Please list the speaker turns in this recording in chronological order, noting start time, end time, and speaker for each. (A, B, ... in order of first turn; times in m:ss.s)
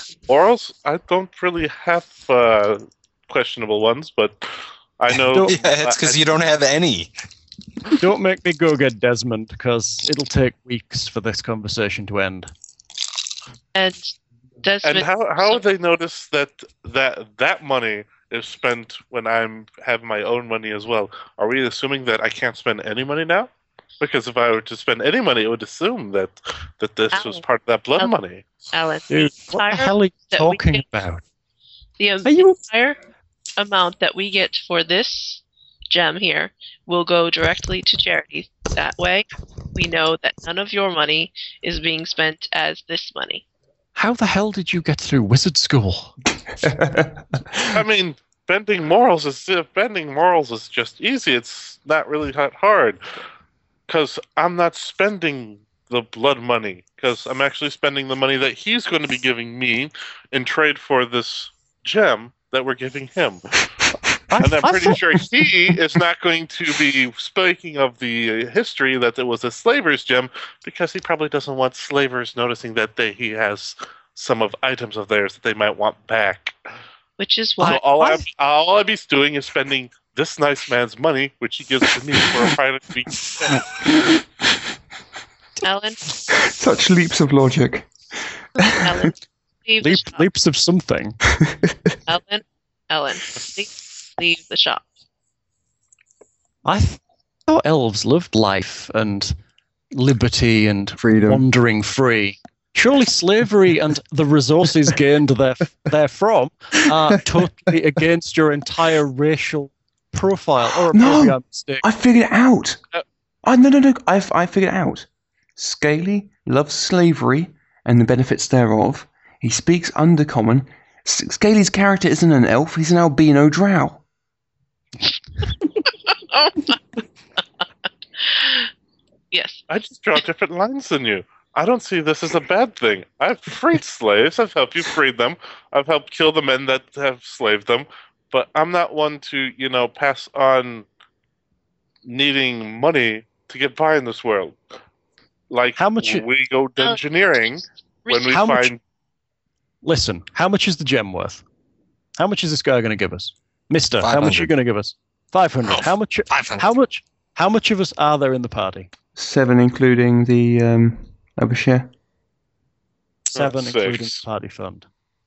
0:00.3-0:06.2 A
0:05.5-0:07.1 B
0:08.0-0:12.5 C
0:13.7-0:15.6 D
0:14.8-0:28.6 A
0:27.1-0:27.4 D
0:28.7-0:30.8 D
0:29.1-0:31.2 C
0:32.0-0:33.0 D
0:32.2-0:32.6 C
0:33.6-0:43.4 D
0:43.9-0:46.1 C
0:46.6-0:47.8 E
0:47.7-0:53.0 A
0:53.9-1:03.4 A
1:04.3-1:05.0 C
1:04.4-1:16.6 A
1:17.2-1:18.1 D
1:17.6-1:23.6 A
1:17.6-1:18.2 C
1:25.6-1:26.0 D
1:26.3-1:27.9 E
1:28.6-1:29.1 E
1:28.6-1:30.2 D
1:29.8-1:31.2 C
1:31.4-1:31.9 E
1:32.1-1:34.8 D
1:36.6-1:39.3 C
1:39.9-1:51.8 C
1:41.0-1:41.4 E
1:50.9-1:52.8 E
1:53.4-2:04.0 E
2:05.8-2:07.4 D
2:08.2-2:08.7 D
2:09.3-2:09.6 D
2:09.7-2:20.9 A
2:22.0-2:24.6 A
2:25.5-2:28.8 A
2:25.8-2:26.2 C
2:28.0-2:28.5 D
2:28.3-2:28.7 C
2:29.8-2:31.4 C
2:32.2-2:38.9 C
2:34.0-2:34.5 B
2:35.7-2:36.7 B
2:39.2-2:41.9 E
2:43.3-2:44.2 A
2:43.3-2:44.9 C